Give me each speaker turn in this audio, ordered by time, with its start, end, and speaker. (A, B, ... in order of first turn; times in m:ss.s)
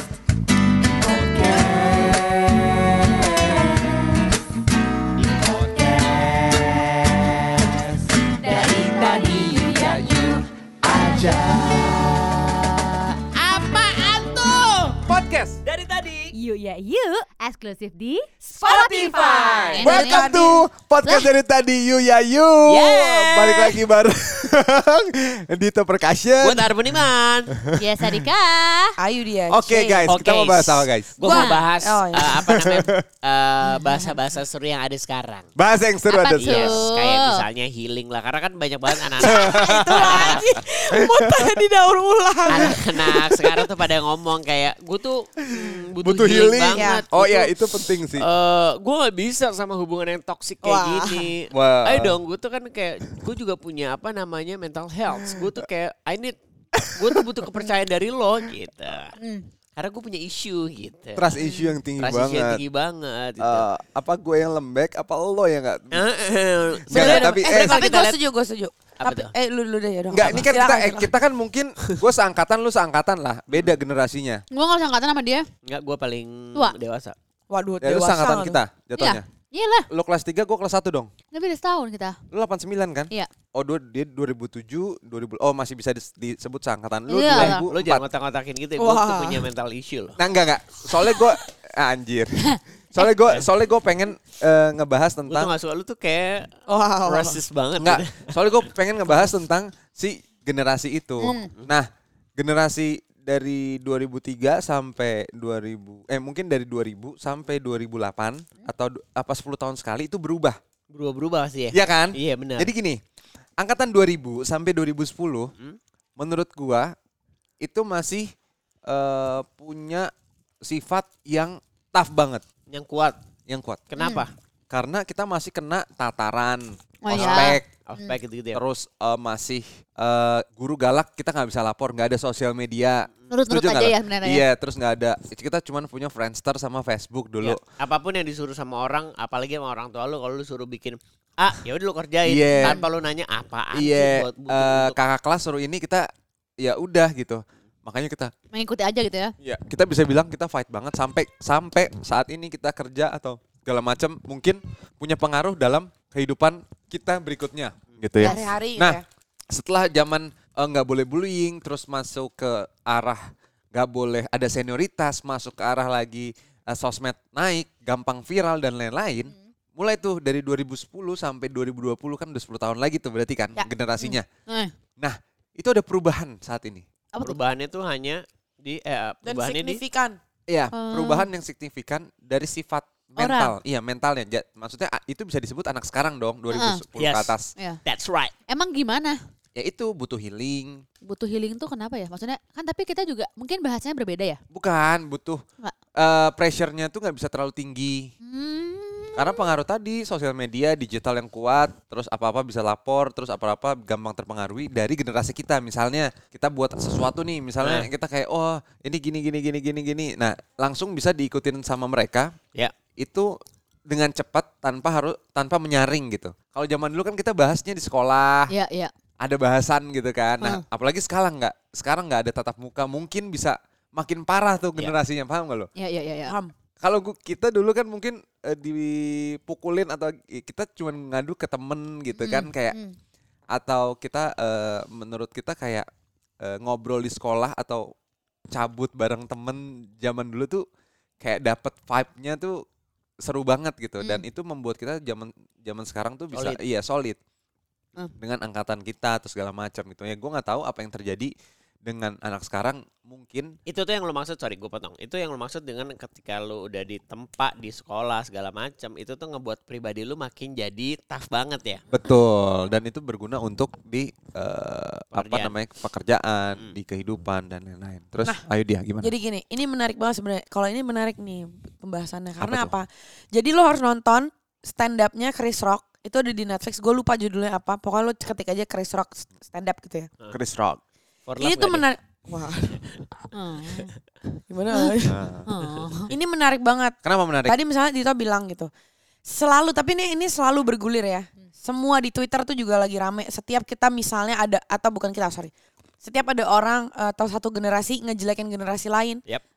0:08.6-0:10.0 A
0:13.4-0:15.6 B
0:15.6-0:16.4 C
0:16.3-0:19.7 A
0:17.6-0:17.8 D
0:18.6-0:26.7 B
0:19.6-0:20.4 D
0:19.8-0:20.7 E
0:21.0-0:21.3 D
0:22.7-0:23.8 C
0:26.4-0:27.6 C
0:27.6-0:28.1 B
0:27.8-0:29.0 D
0:29.0-0:30.1 E
0:29.5-0:31.1 B
0:30.1-0:35.5 C
0:31.2-0:32.4 E
0:32.3-0:33.0 B
0:33.7-0:34.1 D
0:35.6-0:36.8 B
0:36.1-0:37.4 D
0:36.4-0:40.4 C
0:39.2-0:43.7 E
0:39.3-0:40.4 B
0:41.1-0:41.5 B
0:42.5-0:47.5 C
0:46.0-0:48.3 B
0:46.8-0:47.1 E
0:48.0-0:56.4 C
0:50.6-0:51.3 E
0:51.5-0:52.2 B
0:56.8-0:57.2 B
0:57.0-0:59.1 C
0:59.2-0:59.5 D
0:59.8-1:01.3 C
1:01.2-1:02.6 B
1:01.4-1:01.8 D
1:02.0-1:03.7 C
1:03.4-1:06.1 B
1:05.9-1:08.2 C
1:06.9-1:07.8 B
1:06.9-1:11.1 E
1:09.0-1:09.3 C
1:10.1-1:14.4 B
1:14.5-1:15.4 D
1:15.6-1:17.2 C
1:17.5-1:18.6 E
1:17.8-1:19.2 B
1:19.0-1:19.9 D
1:19.9-1:21.1 B
1:21.3-1:22.2 D
1:22.3-1:28.1 B
1:27.1-1:27.6 D
1:27.4-1:30.2 C
1:28.8-1:29.5 E
1:30.2-1:32.4 B
1:32.9-1:35.5 B
1:35.3-1:36.5 C
1:36.7-1:37.4 E
1:37.0-1:39.4 C
1:37.8-1:50.6 B
1:41.2-1:41.5 D
1:50.9-1:52.7 C
1:51.7-1:53.0 B
1:53.6-1:55.5 B
1:56.2-1:56.9 B
1:57.6-1:58.3 B
1:58.9-2:00.1 B
2:00.6-2:02.4 B
2:02.7-2:03.2 C
2:03.5-2:03.9 B
2:03.9-2:04.3 C
2:04.0-2:04.2 D
2:04.7-2:07.7 B
2:07.0-2:08.1 D
2:07.1-2:08.6 C
2:08.5-2:17.6 B
2:13.3-2:14.5 D
2:17.4-2:25.0 C
2:22.2-2:22.8 B
2:22.5-2:22.8 D
2:23.7-2:26.1 B
2:26.6-2:28.3 B
2:28.5-2:29.3 D
2:29.4-2:54.3 B
2:38.2-2:38.6 D
2:38.2-2:39.0 E
2:53.6-2:54.7 D
2:55.0-2:56.9 B
2:57.2-2:59.8 C
2:59.2-3:00.2 E
3:00.5-3:07.5 B
3:00.7-3:01.3 D
3:03.2-3:03.6 D
3:06.5-3:06.8 D
3:07.0-3:07.3 C
3:07.8-3:08.3 C
3:08.5-3:09.2 D
3:09.6-3:10.8 B
3:11.0-3:14.4 D
3:14.5-3:15.4 B
3:16.0-3:18.1 B
3:18.2-3:19.5 D
3:19.2-3:32.3 B
3:27.6-3:27.9 C
3:33.0-3:33.3 B
3:33.9-3:38.6 B
3:38.5-3:38.9 D
3:39.2-3:45.7 B
3:45.8-3:46.4 D
3:46.3-3:46.5 E
3:46.8-3:52.8 B
3:52.2-3:53.0 D
3:53.5-3:55.9 B
3:56.4-3:57.9 B
3:58.5-4:00.6 B
4:01.2-4:02.6 B
4:03.2-4:07.2 B
4:06.3-4:06.6 C
4:08.2-4:11.3 B
4:11.8-4:13.5 B
4:13.7-4:21.8 C
4:21.9-4:29.1 B
4:25.1-4:25.6 C
4:29.0-4:40.1 E
4:32.4-4:32.8 B
4:40.3-4:40.8 B
4:41.3-4:41.9 C
4:41.4-4:43.0 E
4:43.3-4:43.9 D
4:44.5-4:45.3 E
4:45.1-4:45.5 B
4:45.5-4:46.1 D
4:46.1-4:48.7 E
4:47.0-4:47.6 B
4:49.3-4:55.5 E
4:56.0-4:59.2 E